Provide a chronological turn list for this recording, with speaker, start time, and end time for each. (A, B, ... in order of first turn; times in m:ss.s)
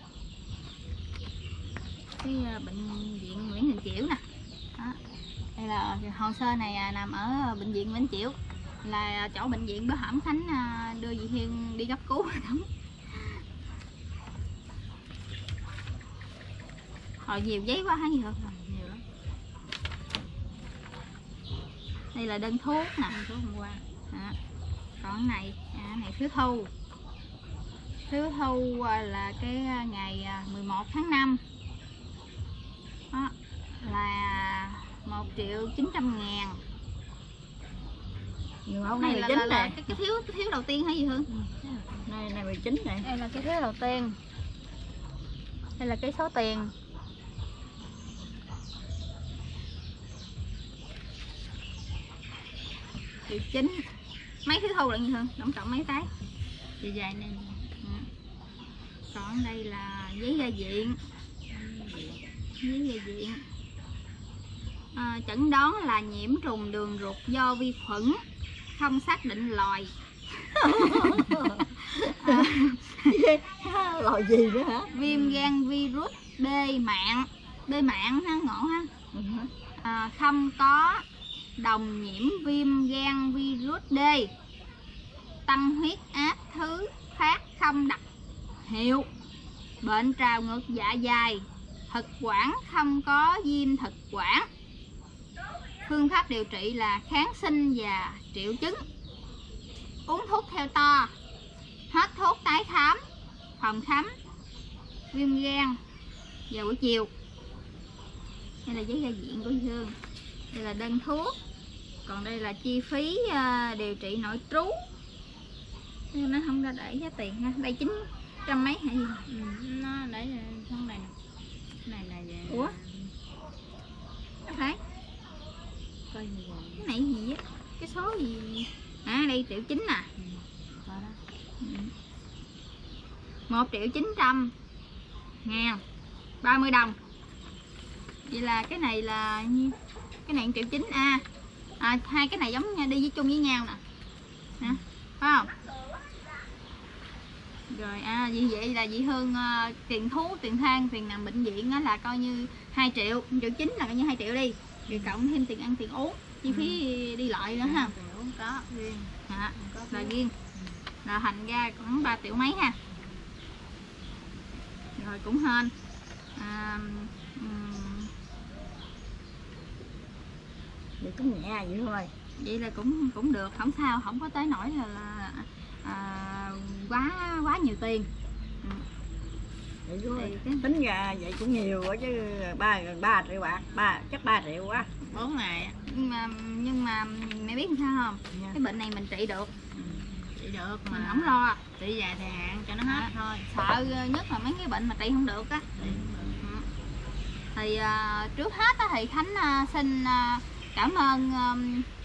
0:02.2-0:04.2 A
0:05.6-0:13.4 A
0:17.2-0:18.4 A
0:18.4-0:19.0 B
0:22.1-0:23.2 A
0:23.1-0:23.8 B
0:25.0-0:26.7 A
0:28.1-0:31.4 A
0:33.1-0:36.6 A
0:38.7-0:39.8 C
0:39.0-0:41.3 A
0:41.4-0:41.8 B
0:42.1-0:43.0 C
0:43.0-0:44.2 A
0:45.8-0:46.7 A
0:53.3-0:53.8 A
0:54.4-0:56.1 A
0:56.8-0:57.6 B
0:57.8-0:58.1 A
0:59.1-1:01.0 A
1:01.5-1:02.2 B
1:02.6-1:03.4 A
1:05.0-1:08.2 A
1:08.8-1:09.9 A
1:10.4-1:13.1 A
1:10.6-1:14.9 C
1:14.9-1:18.9 A
1:15.1-1:15.5 B
1:19.1-1:19.5 C
1:19.8-1:21.0 A
1:21.6-1:24.3 A
1:25.5-1:28.0 A
1:28.6-1:29.1 A
1:29.8-1:34.5 A
1:35.9-1:38.8 A
1:40.1-1:41.1 A
1:41.9-1:43.0 A
1:43.6-1:44.1 A
1:45.1-1:45.8 A
1:46.5-1:47.1 A
1:48.7-1:50.0 A
1:50.5-1:51.3 A
1:52.1-1:54.8 A
1:56.1-1:59.2 A
1:59.3-2:01.1 B
2:01.9-2:03.1 B
2:02.5-2:02.8 A
2:04.5-2:04.8 A
2:06.1-2:06.8 B
2:06.8-2:10.1 A
2:10.2-2:11.2 B
2:11.6-2:11.9 A
2:13.5-2:14.5 A
2:15.4-2:15.8 A
2:16.4-2:17.0 A
2:18.3-2:19.8 A
2:20.3-2:21.2 A
2:21.8-2:23.8 A
2:24.6-2:25.5 A
2:27.7-2:37.9 A
2:36.5-2:36.8 B
2:37.6-2:40.6 B
2:39.2-2:40.3 A
2:41.0-2:42.8 A
2:45.0-2:45.7 A
2:46.4-2:48.1 A
2:51.0-2:52.1 C
2:52.4-2:58.1 A
2:59.9-3:04.9 C
3:00.2-3:00.6 A
3:05.1-3:05.8 B
3:05.9-3:09.5 A
3:09.8-3:13.5 B
3:10.9-3:11.6 A
3:12.9-3:15.7 A
3:15.8-3:16.4 B
3:16.4-3:16.7 A
3:17.6-3:21.9 A